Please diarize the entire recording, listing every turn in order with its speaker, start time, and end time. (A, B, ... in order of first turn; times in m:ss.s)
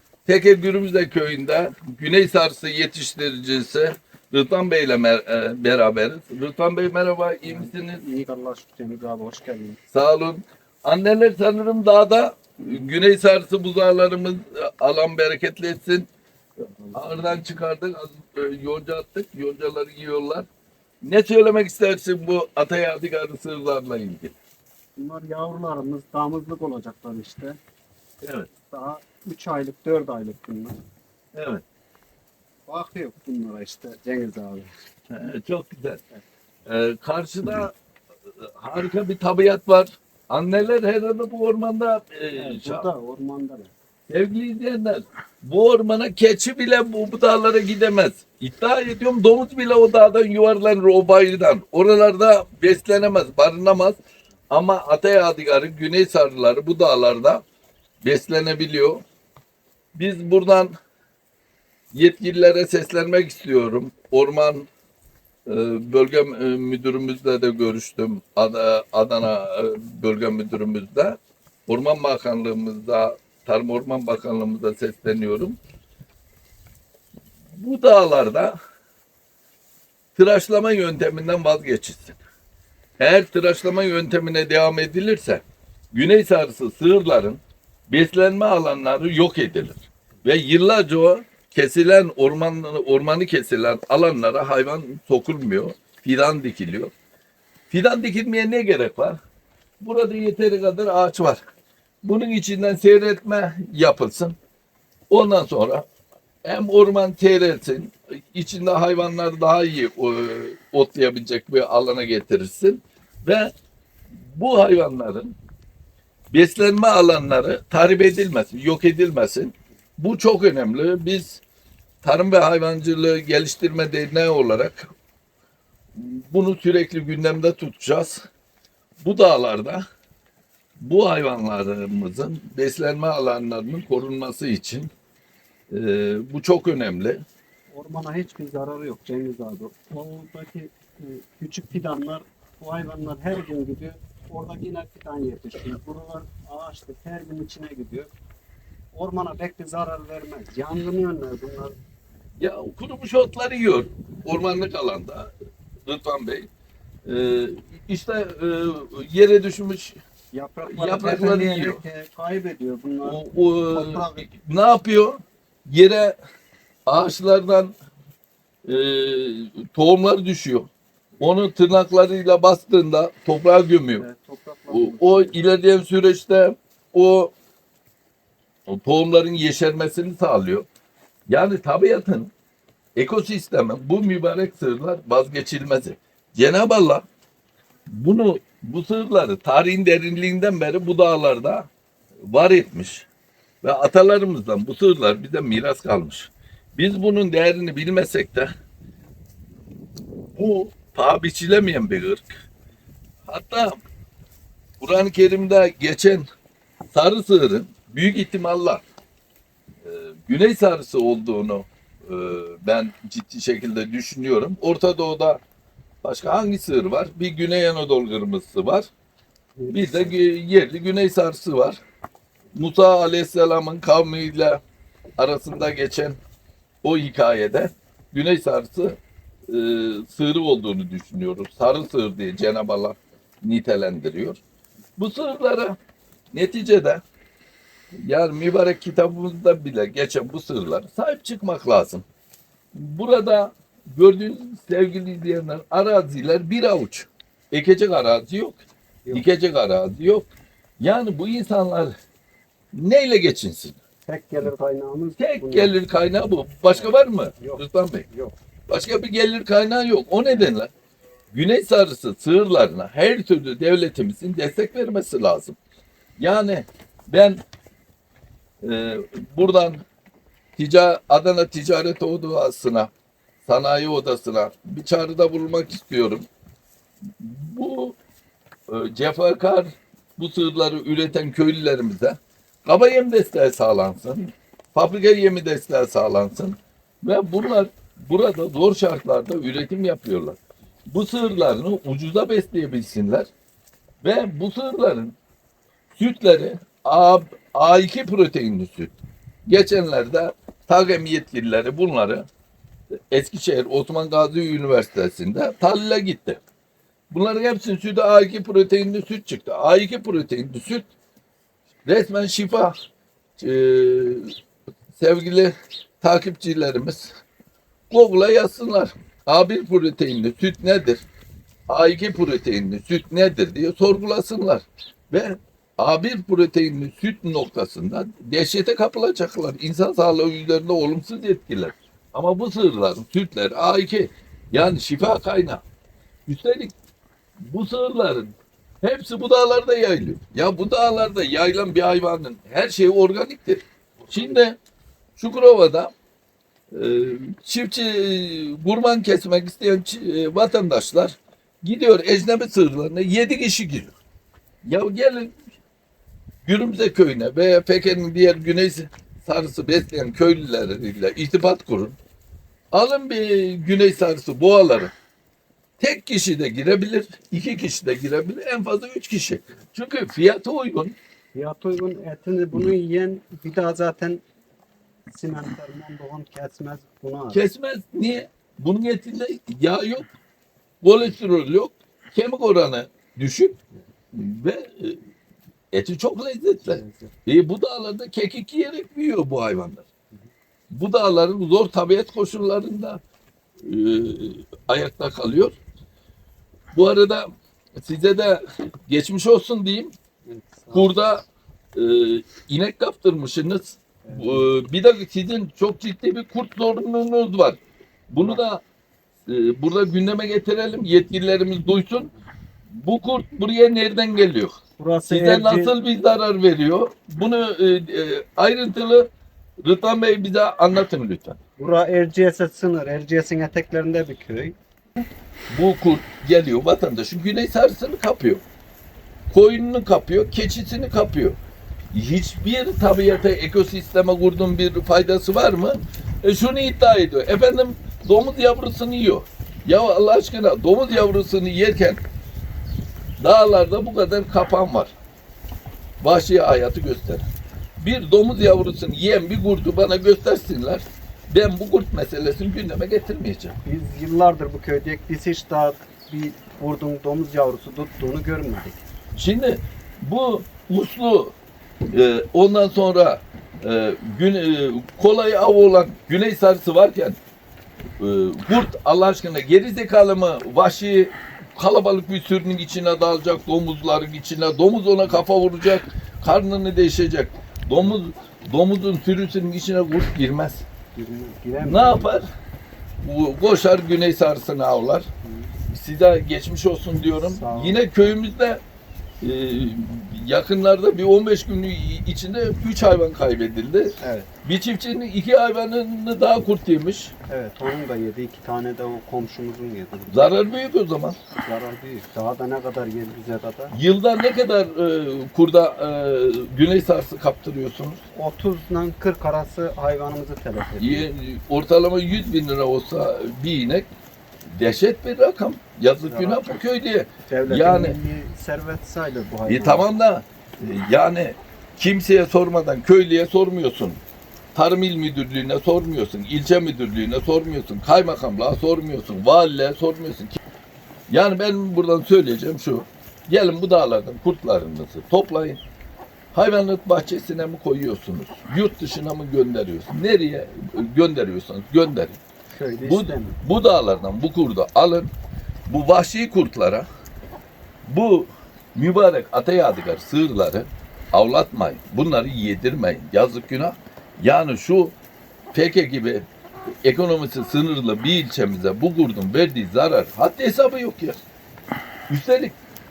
0:00.3-0:08.0 A
0:07.5-0:09.8 B
0:09.9-0:16.1 A
0:16.8-0:17.4 B
0:16.9-0:20.5 A
0:21.0-0:24.4 A
0:25.0-0:27.6 B
0:28.2-0:28.5 A
0:28.7-0:30.8 B
0:31.3-0:31.6 A
0:32.7-0:34.7 B
0:35.1-0:36.0 A
0:36.6-0:37.8 A
0:38.4-0:42.9 A
0:42.3-0:43.7 B
0:44.1-0:54.0 A
0:54.5-0:57.4 A
0:58.0-0:59.0 A
1:00.0-1:00.7 A
1:01.9-1:04.7 A
1:05.5-1:15.6 A
1:17.6-1:18.6 A
1:20.2-1:22.2 A
1:23.0-1:36.9 A
1:37.7-1:39.2 A
1:39.8-1:41.4 A
1:42.0-1:44.4 A
1:45.1-1:45.9 A
1:46.4-1:53.5 A
1:54.3-1:55.4 A
1:56.3-2:01.4 A
2:02.0-2:04.9 A
2:06.0-2:08.3 A
2:09.0-2:09.8 A
2:10.8-2:14.9 A
2:15.7-2:17.2 A
2:17.7-2:28.1 B
2:28.9-2:31.8 B
2:32.4-2:35.3 A
2:35.9-2:36.5 A
2:37.0-2:40.0 A
2:40.3-2:44.3 B
2:40.7-2:41.8 A
2:43.0-2:46.2 A
2:46.9-2:47.8 A
2:48.7-2:50.7 A
2:51.2-2:54.0 A
2:54.0-2:55.4 B
2:54.7-2:57.3 A
2:58.7-3:00.7 A
3:01.3-3:02.3 A
3:03.0-3:07.0 A
3:07.9-3:11.7 A
3:12.3-3:13.1 A
3:13.6-3:18.5 A
3:20.4-3:22.3 A
3:23.3-3:23.8 A
3:24.8-3:26.3 A
3:26.9-3:28.8 A
3:29.8-3:35.4 A
3:36.0-3:38.9 A
3:39.6-3:40.1 B
3:39.7-3:41.8 A
3:42.5-3:44.6 A
3:45.2-3:46.2 A
3:46.8-3:54.4 A
3:55.0-3:55.8 A
3:56.3-3:57.0 A
3:58.0-4:02.0 A
4:02.7-4:10.3 A
4:10.8-4:11.9 A
4:12.7-4:13.8 A
4:14.1-4:15.8 B
4:15.2-4:18.1 A
4:16.7-4:18.3 B
4:18.7-4:20.7 A
4:21.3-4:25.6 A
4:26.2-4:27.4 A
4:28.6-4:29.8 A
4:30.6-4:32.9 A
4:33.4-4:36.3 A
4:37.2-4:38.0 A
4:38.7-4:53.3 A
4:54.0-4:55.2 A
4:56.0-5:02.3 A
5:03.1-5:06.4 A
5:07.1-5:10.9 A
5:11.8-5:12.7 A
5:13.4-5:14.3 A
5:15.0-5:17.2 A
5:17.9-5:21.0 A
5:21.7-5:35.6 A
5:36.3-5:36.7 A
5:37.4-5:44.6 A
5:44.0-5:44.4 B
5:45.2-5:45.9 A
5:46.7-5:53.9 A
5:54.6-5:55.4 A
5:56.4-6:02.0 A
6:02.7-6:04.9 A
6:05.8-6:11.0 A
6:11.3-6:14.2 B
6:15.1-6:17.4 B
6:17.3-6:20.1 A
6:20.8-6:23.6 A
6:24.1-6:25.0 A
6:25.7-6:29.9 A
6:26.7-6:27.1 B
6:30.7-6:33.0 A
6:33.6-6:35.6 A
6:36.7-6:39.9 A
6:40.2-6:40.9 B
6:40.7-6:48.6 A
6:44.0-6:44.5 B
6:49.3-6:52.1 A
6:52.8-6:54.6 A
6:54.8-6:55.8 B
6:55.1-6:59.1 A
6:59.6-7:01.4 A
7:01.6-7:04.6 B
7:05.5-7:08.4 A
7:09.3-7:11.4 A
7:11.9-7:22.0 A
7:23.2-7:24.9 A
7:26.0-7:27.3 A
7:27.8-7:33.6 A
7:33.6-7:38.8 B
7:39.2-7:41.4 A
7:41.9-7:47.2 A
7:48.0-8:00.7 A
8:01.0-8:02.1 B
8:01.6-8:02.3 A
8:03.0-8:05.1 A
8:05.2-8:05.5 B
8:05.7-8:08.6 A
8:07.2-8:08.1 B
8:09.2-8:17.1 A
8:14.0-8:14.3 B
8:17.3-8:20.3 B
8:20.1-8:21.2 A
8:21.4-8:23.7 B
8:23.7-8:28.0 A
8:28.2-8:31.1 B
8:30.8-8:33.9 A
8:34.6-8:38.0 A
8:36.0-8:36.4 B
8:37.3-8:39.9 B
8:39.5-8:44.0 A
8:44.6-8:50.4 A
8:51.1-8:55.6 A
8:56.3-9:02.2 A
9:02.5-9:03.4 B
9:02.8-9:05.1 A
9:05.7-9:06.9 A
9:07.8-9:15.0 A
9:15.5-9:16.3 A
9:16.8-9:21.2 A
9:22.1-9:22.6 A